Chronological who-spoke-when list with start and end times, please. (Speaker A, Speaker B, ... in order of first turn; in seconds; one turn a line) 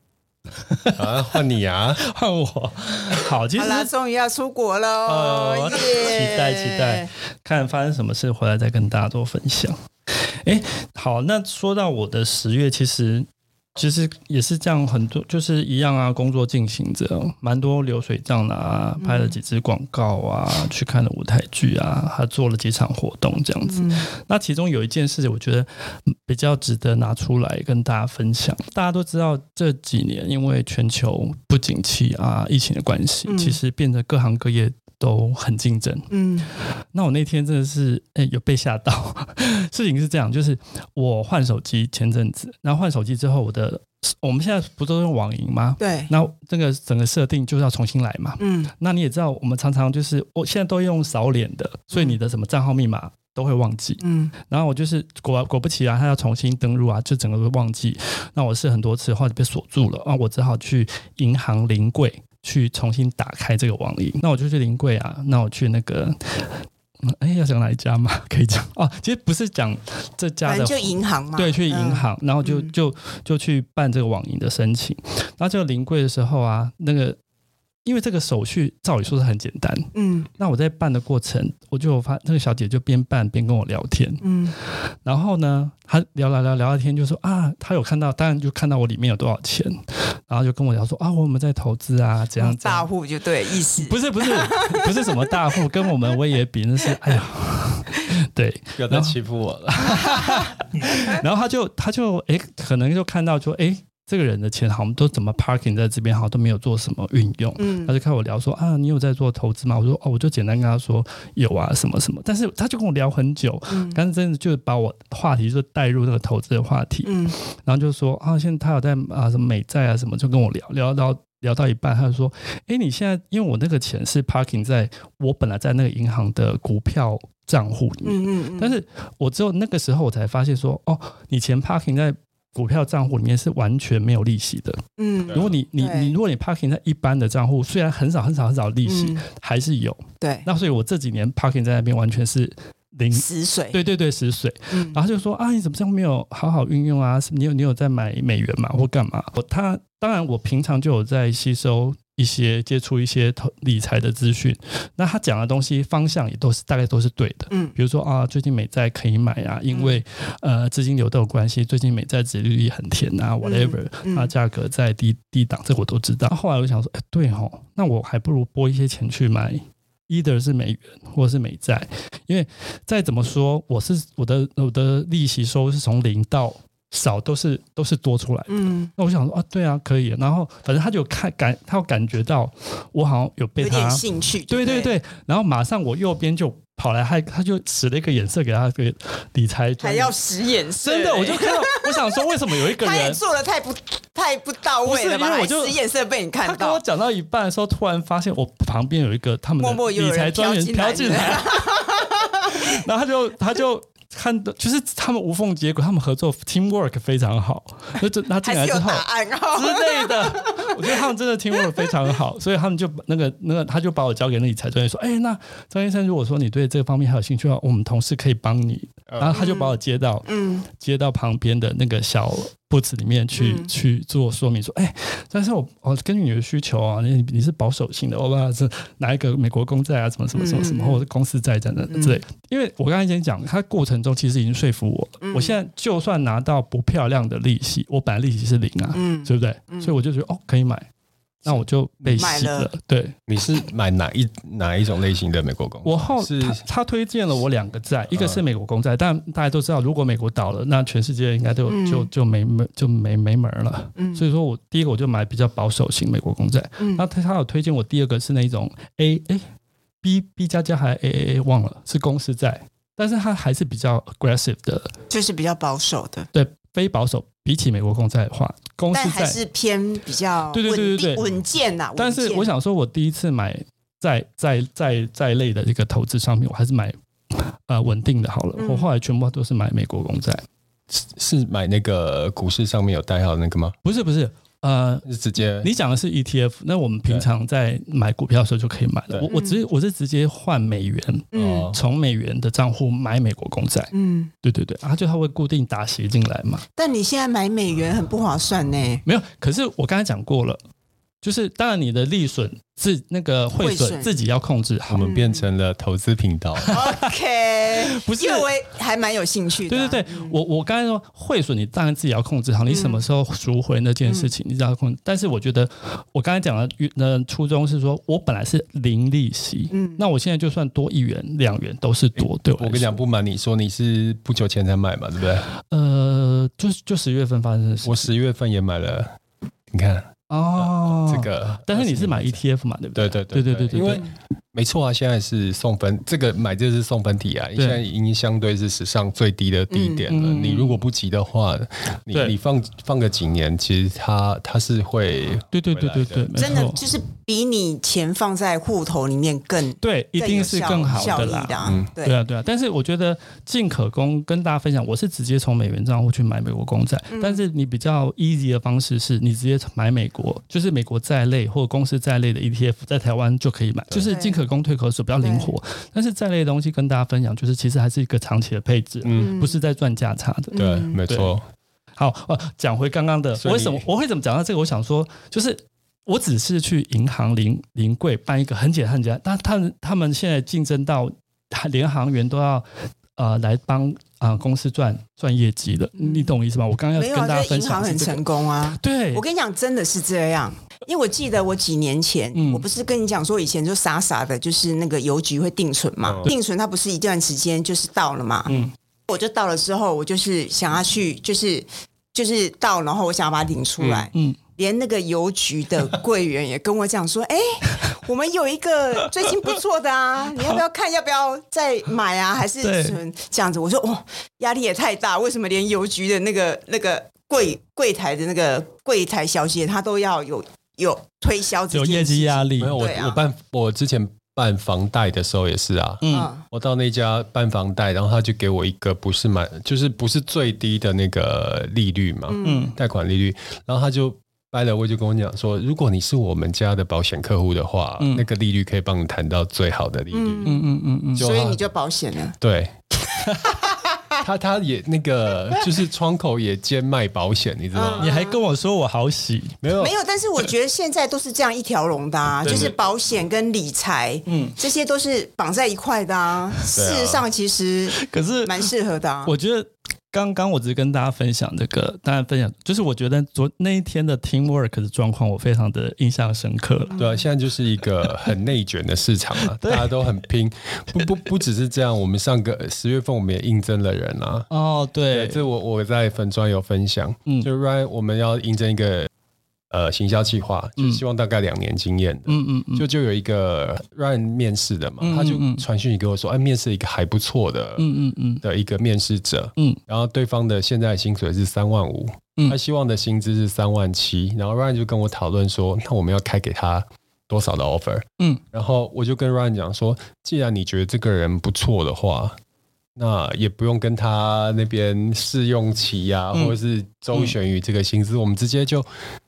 Speaker A: 0.6-1.4
Speaker B: 1.0-2.0
Speaker A: 2.0-3.9
Speaker C: 3.6-7.1
Speaker A: 5.1-36.1
Speaker B: 5.4-5.9
Speaker C: 19.0-19.4
Speaker C: 23.7-24.1
Speaker C: 33.3-33.6
Speaker C: 36.1-36.5
Speaker A: 36.9-77.2
Speaker C: 45.8-46.1
Speaker C: 48.4-48.7
Speaker C: 54.0-54.3
Speaker C: 70.5-72.7
Speaker A: 77.8-92.9
Speaker C: 79.9-80.3
Speaker C: 84.2-84.6
Speaker C: 92.4-95.9
Speaker A: 93.6-99.2
Speaker C: 96.9-97.2
Speaker B: 98.8-100.2
Speaker A: 99.7-190.2
Speaker C: 99.9-100.5
Speaker C: 107.6-108.0
Speaker C: 113.7-114.0
Speaker C: 117.0-117.4
Speaker C: 128.0-128.8
Speaker C: 135.0-136.2
Speaker B: 135.3-135.6
Speaker C: 138.9-139.2
Speaker C: 140.2-140.5
Speaker C: 143.1-143.8
Speaker C: 144.7-145.0
Speaker C: 159.7-160.0
Speaker C: 163.4-164.3
Speaker C: 178.5-178.9
Speaker C: 183.6-184.9
Speaker C: 189.8-196.8
Speaker A: 190.8-193.2
Speaker A: 194.8-195.8
Speaker A: 196.4-201.9
Speaker C: 199.6-202.8
Speaker A: 202.4-240.9
Speaker C: 208.4-211.9
Speaker B: 219.1-219.4
Speaker C: 219.3-220.7
Speaker C: 223.4-223.7
Speaker C: 230.3-231.1
Speaker C: 231.9-232.2
Speaker C: 235.2-235.6
Speaker C: 238.9-240.0
Speaker A: 241.4-243.2
Speaker C: 242.1-242.7
Speaker B: 243.3-246.6
Speaker A: 245.8-259.4
Speaker B: 248.1-248.4
Speaker C: 251.7-252.1
Speaker C: 254.0-254.2
Speaker C: 256.8-257.1
Speaker A: 260.0-264.9
Speaker C: 265.1-266.3
Speaker A: 266.3-269.4
Speaker C: 268.9-272.5
Speaker A: 270.5-271.3
Speaker A: 272.0-280.4
Speaker C: 278.6-278.9
Speaker B: 280.9-283.8
Speaker A: 283.9-285.1
Speaker B: 285.1-285.7
Speaker A: 285.6-296.6
Speaker C: 289.3-289.6
Speaker C: 291.3-291.7
Speaker B: 291.3-291.8
Speaker C: 293.9-294.3
Speaker C: 296.8-299.0
Speaker A: 299.1-300.6
Speaker A: 301.2-305.1
Speaker C: 303.6-304.1
Speaker B: 304.9-306.8
Speaker C: 305.0-305.5
Speaker A: 306.7-307.1
Speaker C: 306.7-310.4
Speaker A: 307.8-308.5
Speaker A: 309.7-323.0
Speaker C: 312.7-313.0
Speaker C: 314.1-314.3
Speaker C: 319.7-320.0
Speaker B: 322.2-325.5
Speaker A: 325.5-328.1
Speaker B: 327.8-329.1
Speaker B: 329.7-332.4
Speaker A: 330.3-334.0
Speaker B: 332.9-346.3
Speaker C: 333.8-334.1
Speaker C: 339.7-340.0
Speaker A: 340.1-340.8
Speaker A: 345.5-346.8
Speaker C: 346.3-352.2
Speaker A: 349.8-371.4
Speaker B: 351.6-351.9
Speaker C: 357.1-357.4
Speaker C: 364.0-364.5
Speaker C: 365.2-365.6
Speaker B: 369.0-369.4
Speaker C: 369.1-369.6
Speaker C: 370.5-371.0
Speaker B: 370.5-371.4
Speaker A: 372.0-382.6
Speaker B: 373.4-373.8
Speaker A: 383.2-389.2
Speaker C: 386.0-386.4
Speaker C: 386.9-398.5
Speaker A: 392.3-392.6
Speaker B: 396.1-396.3
Speaker C: 399.1-423.2
Speaker B: 403.8-404.1
Speaker A: 412.6-413.0
Speaker A: 421.7-422.8
Speaker B: 422.6-440.6
Speaker A: 426.0-426.3
Speaker C: 426.1-426.4
Speaker C: 432.3-432.7
Speaker A: 432.4-432.8
Speaker A: 438.0-438.2
Speaker C: 440.1-442.4
Speaker A: 440.4-441.3
Speaker B: 441.2-441.6
Speaker B: 442.4-442.7
Speaker C: 443.5-444.0
Speaker B: 444.2-448.1
Speaker C: 447.7-448.4
Speaker A: 448.0-449.6
Speaker B: 449.6-449.9
Speaker C: 449.8-459.4
Speaker A: 452.4-452.7
Speaker B: 452.4-452.7
Speaker A: 454.3-454.6
Speaker B: 456.8-457.2
Speaker A: 458.0-458.7
Speaker A: 459.2-467.0
Speaker C: 466.9-467.2
Speaker B: 467.0-474.5
Speaker A: 469.4-470.0
Speaker A: 474.5-475.4
Speaker B: 475.1-479.1
Speaker B: 479.7-487.9
Speaker A: 482.3-482.9
Speaker A: 485.0-485.7
Speaker A: 487.8-488.4
Speaker B: 488.4-502.4
Speaker B: 503.0-508.9